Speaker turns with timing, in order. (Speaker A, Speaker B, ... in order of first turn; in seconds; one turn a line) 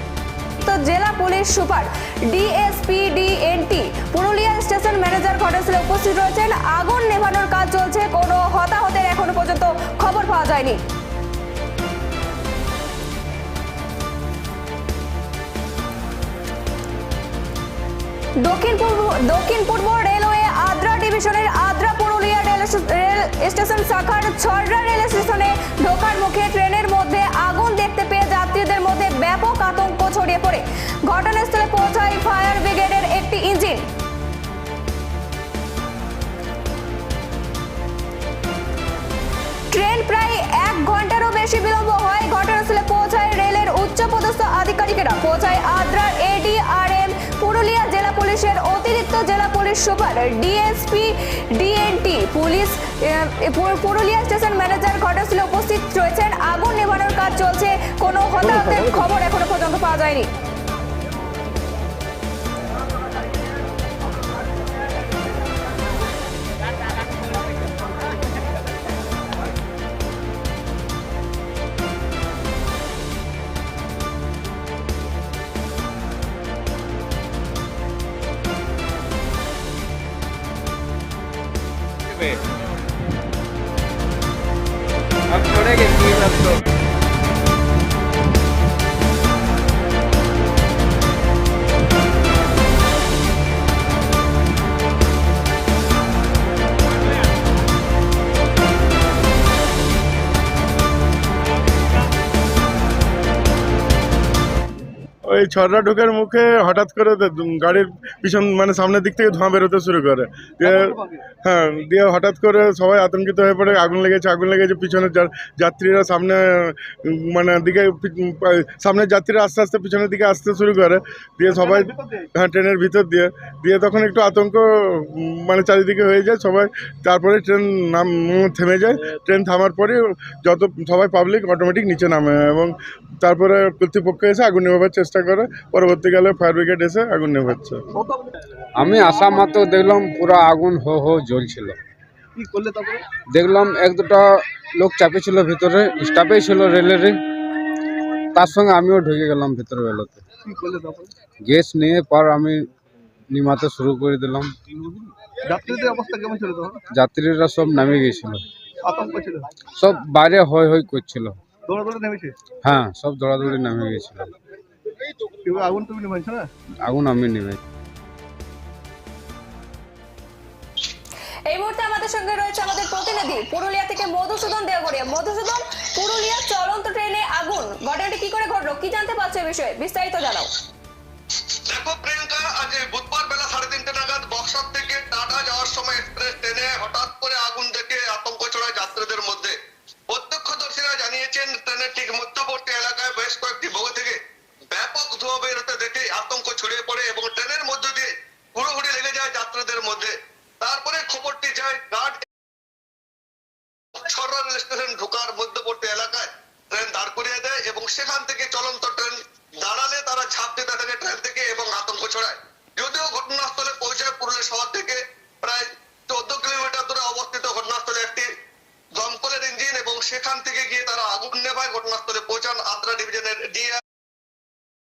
Speaker A: 0.6-10.8
Speaker A: 18.4-33.9
Speaker A: 39.7-60.3
Speaker B: 105.3-110.9
Speaker C: 110.6-111.1
Speaker B: 111.5-137.8
Speaker C: 121.5-122.1
Speaker D: 138.8-141.8
Speaker C: 142.3-143.0
Speaker D: 143.3-147.2
Speaker D: 148.3-150.2
Speaker C: 150.5-151.1
Speaker D: 151.4-152.7
Speaker D: 153.3-154.5
Speaker C: 155.5-156.8
Speaker D: 156.9-158.4
Speaker C: 158.8-159.4
Speaker D: 159.8-161.4
Speaker C: 161.7-162.3
Speaker D: 162.6-164.3
Speaker C: 165.4-166.5
Speaker D: 166.8-167.6
Speaker A: 171.5-180.5
Speaker E: 181.7-189.6
Speaker E: 190.1-194.2
Speaker E: 194.7-202.2
Speaker E: 204.0-218.3
Speaker E: 218.9-223.8